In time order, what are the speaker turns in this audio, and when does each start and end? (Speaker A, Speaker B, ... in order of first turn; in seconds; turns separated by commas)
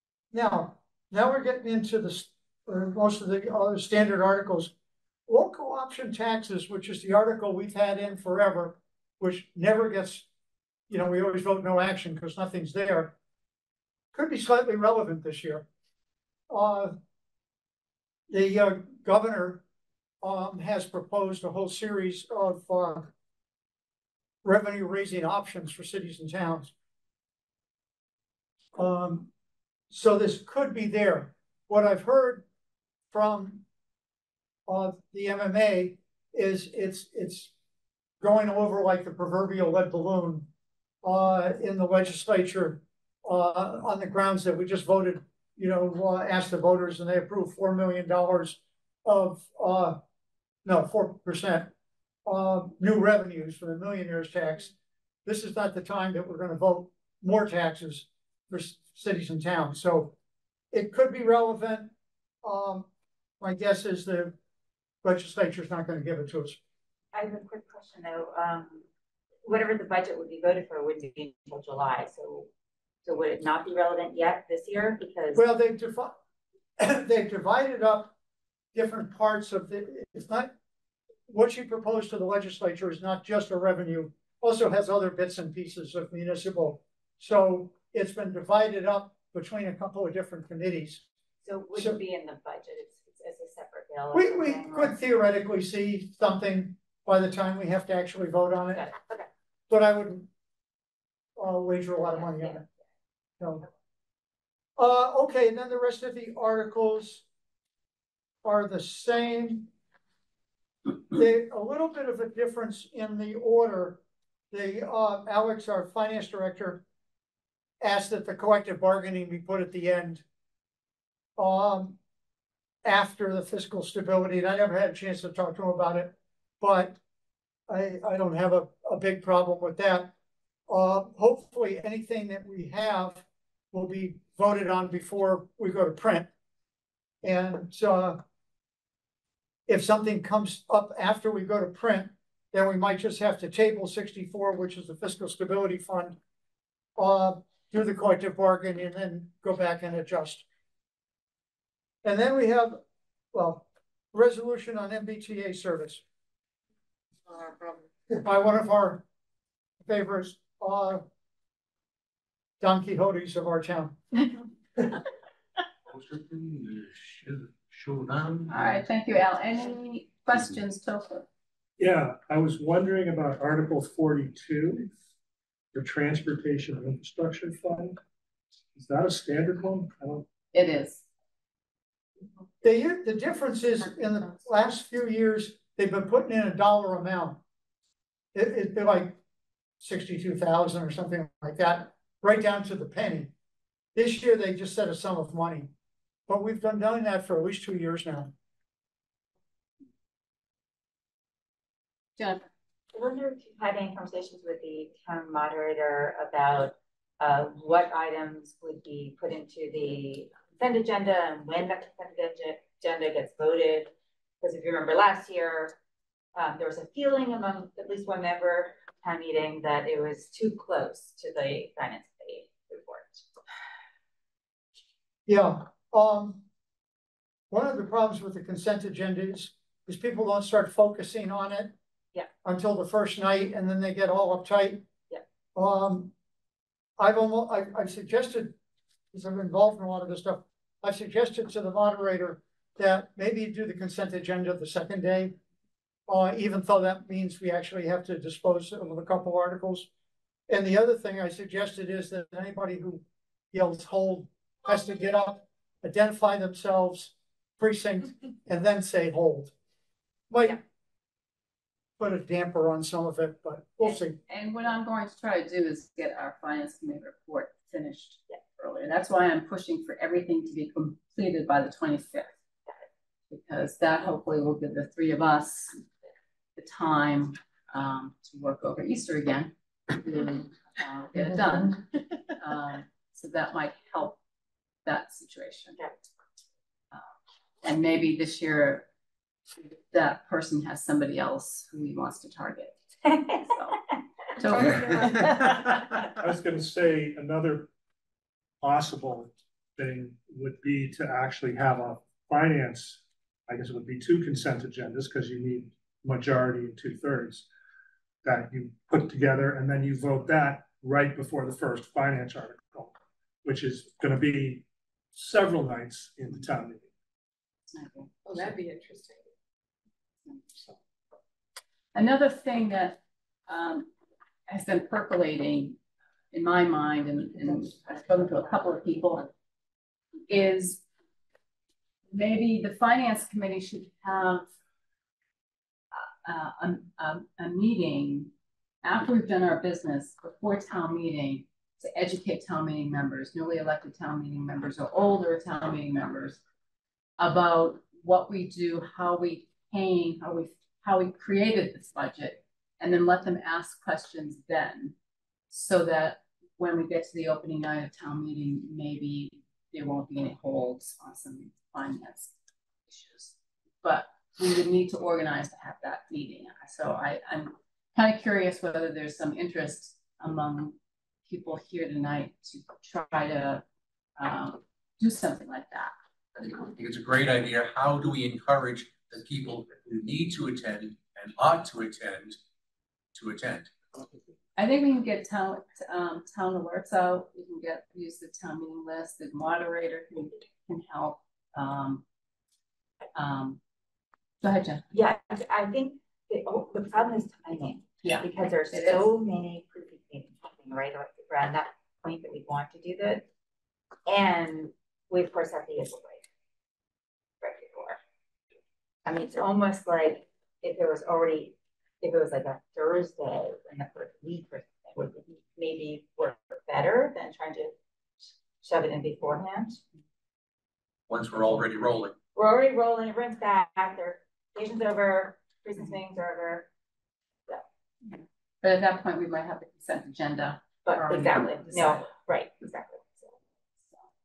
Speaker A: 0.3-4.7, Speaker A: 5.3-10.2, Speaker A: 10.9-13.1, Speaker A: 14.1-15.7, Speaker A: 16.5-17.0, Speaker A: 18.3-19.6, Speaker A: 20.2-23.1, Speaker A: 24.4-26.7, Speaker A: 28.8-29.3, Speaker A: 29.9-32.4, Speaker A: 33.1-33.6, Speaker A: 34.7-37.5, Speaker A: 38.2-40.5, Speaker A: 41.0-50.0, Speaker A: 50.6-51.7, Speaker A: 52.2-54.7, Speaker A: 55.2-60.1, Speaker A: 60.7-61.9, Speaker A: 62.4-62.9, Speaker A: 63.4-64.3, Speaker A: 65.0-66.6, Speaker B: 67.1-68.8, Speaker B: 69.4-72.5, Speaker B: 73.0-75.5, Speaker A: 75.3-76.1, Speaker A: 76.8-78.1, Speaker A: 78.7-80.5, Speaker A: 81.3-91.0, Speaker B: 91.4-95.0, Speaker A: 94.1-98.9, Speaker B: 98.7-99.3, Speaker A: 99.7-100.3, Speaker A: 101.4-102.6, Speaker B: 102.1-102.7, Speaker A: 103.4-103.7, Speaker A: 104.8-107.2, Speaker A: 108.4-109.7, Speaker A: 111.1-114.0, Speaker A: 114.5-116.8, Speaker A: 117.8-120.2, Speaker A: 121.4-122.0, Speaker A: 122.8-127.0, Speaker A: 127.7-130.1, Speaker A: 130.7-136.3, Speaker A: 137.2-138.2, Speaker A: 139.7-146.2, Speaker A: 146.9-150.4, Speaker A: 152.0-152.8, Speaker A: 153.3-156.0, Speaker C: 157.3-157.9, Speaker A: 158.1-159.0, Speaker A: 159.8-161.0, Speaker A: 162.6-164.0, Speaker D: 168.5-171.3, Speaker E: 171.8-174.9, Speaker E: 175.7-178.0, Speaker E: 178.7-180.3, Speaker D: 180.5-181.0, Speaker A: 182.6-187.4, Speaker A: 188.3-189.2, Speaker A: 189.8-193.3, Speaker A: 193.9-195.7, Speaker A: 196.3-198.3, Speaker D: 202.2-202.4, Speaker B: 202.9-215.8, Speaker B: 216.3-223.2, Speaker A: 225.3-226.4, Speaker A: 227.5-231.7, Speaker A: 232.4-234.8, Speaker A: 235.5-236.1, Speaker A: 237.0-238.5, Speaker A: 239.1-245.3, Speaker A: 246.1-249.9, Speaker A: 250.5-259.5, Speaker A: 260.3-260.6, Speaker A: 262.0-264.2, Speaker D: 263.8-272.3, Speaker D: 273.3-275.8, Speaker D: 276.6-281.8, Speaker D: 282.4-284.2, Speaker D: 284.9-285.8, Speaker D: 287.6-288.9, Speaker D: 289.9-292.8, Speaker B: 293.1-293.4, Speaker D: 293.4-293.8, Speaker D: 294.4-295.3, Speaker B: 294.5-295.5, Speaker C: 294.5-295.2, Speaker E: 296.2-297.7, Speaker E: 298.6-307.5, Speaker E: 308.2-316.9, Speaker D: 317.7-318.1, Speaker C: 318.2-319.3, Speaker D: 321.9-323.9, Speaker D: 324.5-325.8, Speaker D: 326.3-329.3, Speaker D: 330.3-330.8, Speaker D: 332.1-334.5, Speaker D: 335.9-338.3, Speaker D: 338.8-346.4, Speaker D: 347.2-354.9, Speaker D: 355.5-362.3, Speaker D: 362.9-370.8, Speaker D: 371.3-373.6, Speaker D: 374.2-375.9, Speaker F: 376.4-382.4, Speaker F: 383.1-383.8, Speaker D: 384.6-392.0, Speaker D: 393.1-393.6, Speaker D: 394.4-394.8, Speaker B: 394.9-403.2, Speaker D: 398.0-399.1, Speaker B: 404.1-406.3, Speaker B: 407.4-408.0, Speaker B: 409.0-417.7, Speaker B: 418.6-419.8, Speaker F: 421.1-422.1, Speaker B: 422.3-426.7, Speaker D: 428.6-432.1, Speaker B: 430.8-433.3